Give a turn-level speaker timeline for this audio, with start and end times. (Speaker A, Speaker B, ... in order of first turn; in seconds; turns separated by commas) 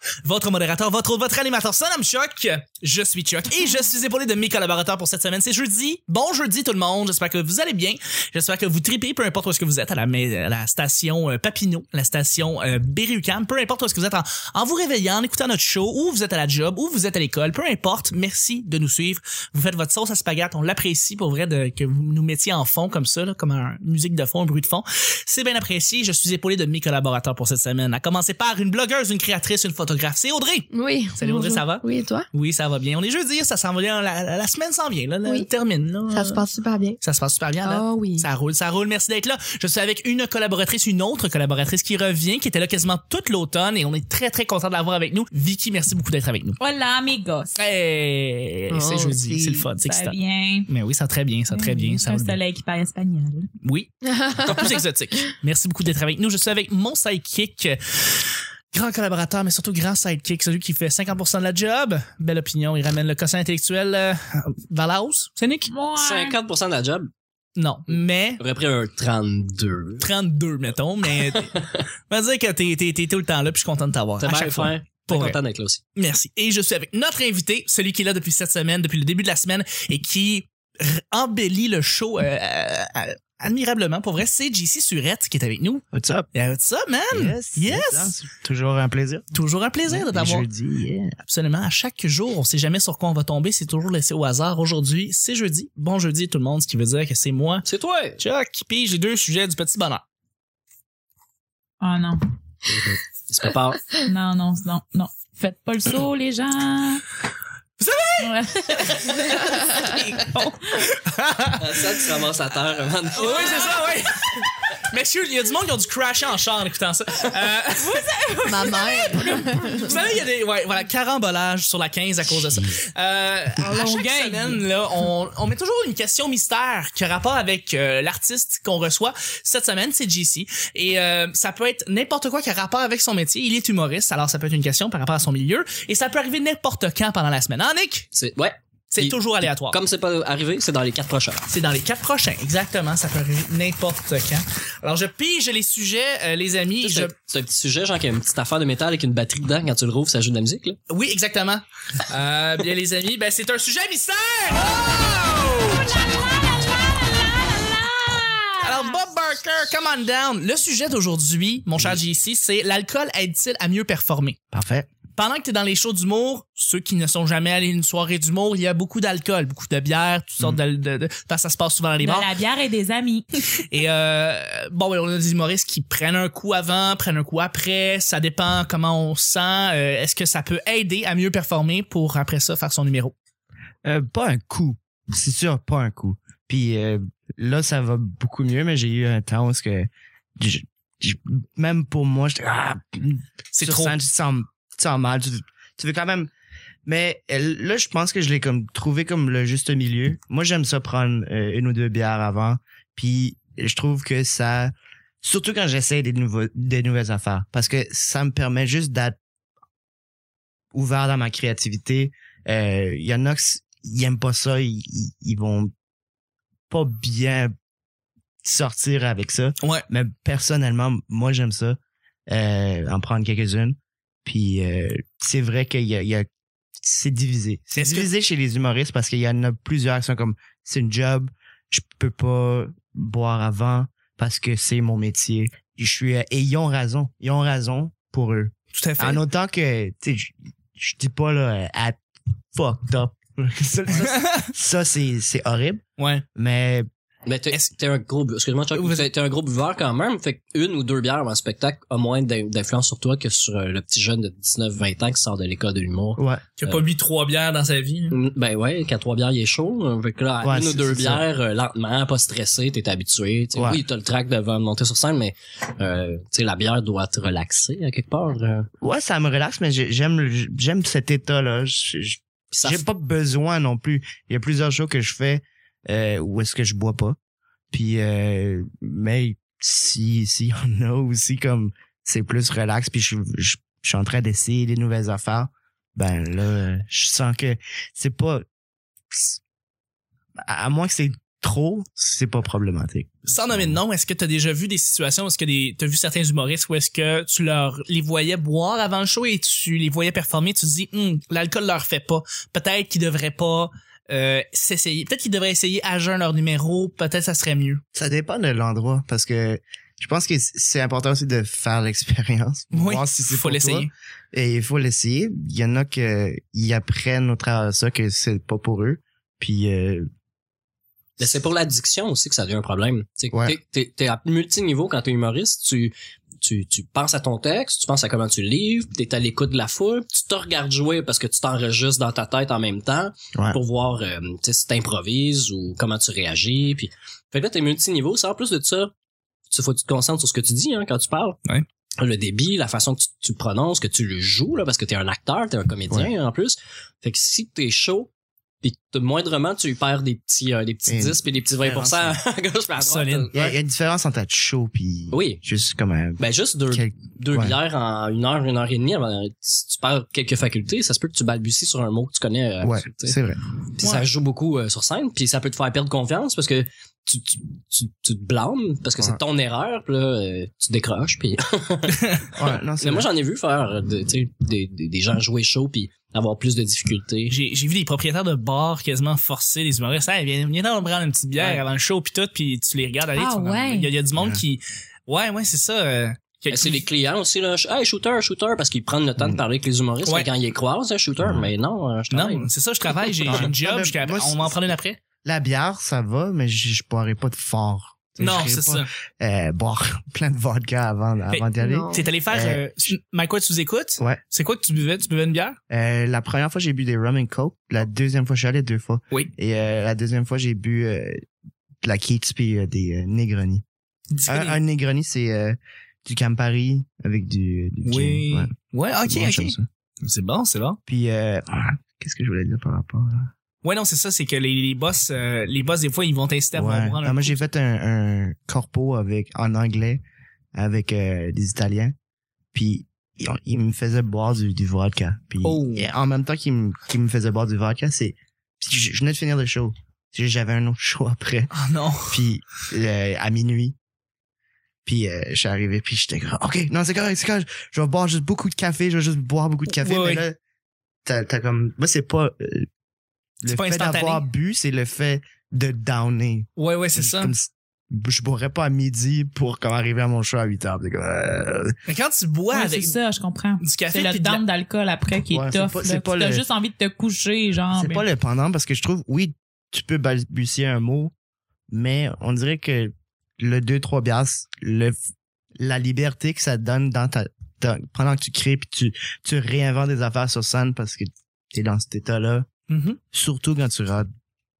Speaker A: 0.2-36.4, Speaker B: 30.7-32.3, Speaker B: 36.1-37.0, Speaker A: 37.0-46.6, Speaker B: 37.6-38.3, Speaker C: 46.6-47.5, Speaker A: 47.5-50.1, Speaker B: 48.7-49.7, Speaker C: 49.8-50.7, Speaker A: 50.7-52.4, Speaker C: 51.5-53.5, Speaker A: 53.6-65.7, Speaker B: 54.0-54.8, Speaker C: 65.7-66.3, Speaker D: 66.0-67.1, Speaker A: 67.5-68.4, Speaker D: 68.4-70.0, Speaker A: 70.0-75.4, Speaker D: 71.1-71.8, Speaker D: 74.2-75.8, Speaker A: 76.0-88.2, Speaker E: 85.9-86.3, Speaker E: 87.1-89.3, Speaker A: 89.3-90.5, Speaker E: 89.9-91.2, Speaker A: 91.2-97.7, Speaker D: 97.7-98.2, Speaker A: 98.2-100.0, Speaker C: 101.8-102.2, Speaker D: 102.7-104.0, Speaker C: 104.0-107.0, Speaker A: 107.8-111.8, Speaker C: 108.2-110.8, Speaker D: 111.6-113.6, Speaker A: 113.1-118.1, Speaker C: 113.2-113.7, Speaker C: 117.8-119.9, Speaker B: 118.5-119.9, Speaker A: 119.2-138.1, Speaker C: 123.6-124.6, Speaker D: 138.1-141.5, Speaker A: 138.9-139.8, Speaker A: 141.5-147.1, Speaker D: 146.8-150.8, Speaker A: 150.9-155.9, Speaker C: 157.5-158.9, Speaker A: 158.6-164.4, Speaker E: 164.5-164.9, Speaker A: 165.1-172.3, Speaker C: 172.0-173.2, Speaker A: 173.6-183.1, Speaker E: 183.8-196.3, Speaker A: 193.5-194.0, Speaker E: 196.8-209.2, Speaker E: 210.7-215.7, Speaker E: 216.7-217.5, Speaker E: 218.4-226.3, Speaker E: 226.8-242.0, Speaker A: 227.7-228.1, Speaker A: 238.7-239.2, Speaker E: 242.5-245.8, Speaker A: 244.0-244.5, Speaker A: 246.0-246.2, Speaker E: 246.3-246.9, Speaker D: 247.2-256.8, Speaker A: 248.8-249.1, Speaker E: 256.2-256.4, Speaker A: 256.6-258.2, Speaker D: 258.1-268.7, Speaker E: 260.4-261.2, Speaker E: 263.6-263.8, Speaker E: 268.8-277.2, Speaker D: 272.5-272.8, Speaker E: 277.7-288.4, Speaker E: 289.1-289.4, Speaker E: 290.4-293.8, Speaker A: 293.3-307.8, Speaker E: 307.9-320.1, Speaker A: 312.7-313.9, Speaker D: 321.2-338.9, Speaker E: 323.3-323.6, Speaker D: 339.5-341.4, Speaker D: 342.0-348.1, Speaker D: 348.6-353.4, Speaker E: 350.9-352.2, Speaker A: 352.8-353.5, Speaker E: 353.3-357.6, Speaker D: 355.1-355.4, Speaker D: 356.2-363.2, Speaker E: 362.6-363.4, Speaker D: 363.8-372.0, Speaker A: 363.8-364.1, Speaker A: 371.9-372.3, Speaker E: 372.3-373.1, Speaker D: 372.8-377.3, Speaker A: 377.3-386.8, Speaker D: 381.4-381.6, Speaker C: 383.1-383.9, Speaker E: 384.1-384.4, Speaker D: 386.5-392.5, Speaker E: 391.2-391.5, Speaker A: 392.1-395.0, Speaker D: 393.0-393.5, Speaker E: 393.2-394.7, Speaker E: 395.2-402.6, Speaker A: 398.2-398.9, Speaker A: 401.3-405.6, Speaker B: 401.6-402.1, Speaker E: 405.7-411.2, Speaker E: 411.8-413.6, Speaker A: 414.1-414.6, Speaker E: 414.3-418.5, Speaker A: 417.8-420.8, Speaker E: 419.1-419.7, Speaker E: 420.9-423.3, Speaker A: 423.6-427.4, Speaker E: 426.5-430.0, Speaker E: 430.5-431.9, Speaker E: 432.5-441.5, Speaker A: 435.4-435.9, Speaker A: 441.5-442.2, Speaker E: 442.1-443.8, Speaker E: 444.8-450.4, Speaker A: 449.7-450.2, Speaker E: 451.0-452.7, Speaker E: 453.4-461.7, Speaker A: 453.5-454.2, Speaker A: 456.6-457.3, Speaker A: 461.9-462.9, Speaker C: 462.5-468.0, Speaker A: 463.6-464.4, Speaker E: 465.3-466.4, Speaker E: 467.7-471.1, Speaker E: 471.7-474.9, Speaker E: 475.6-482.5, Speaker A: 482.7-483.0, Speaker E: 483.1-484.1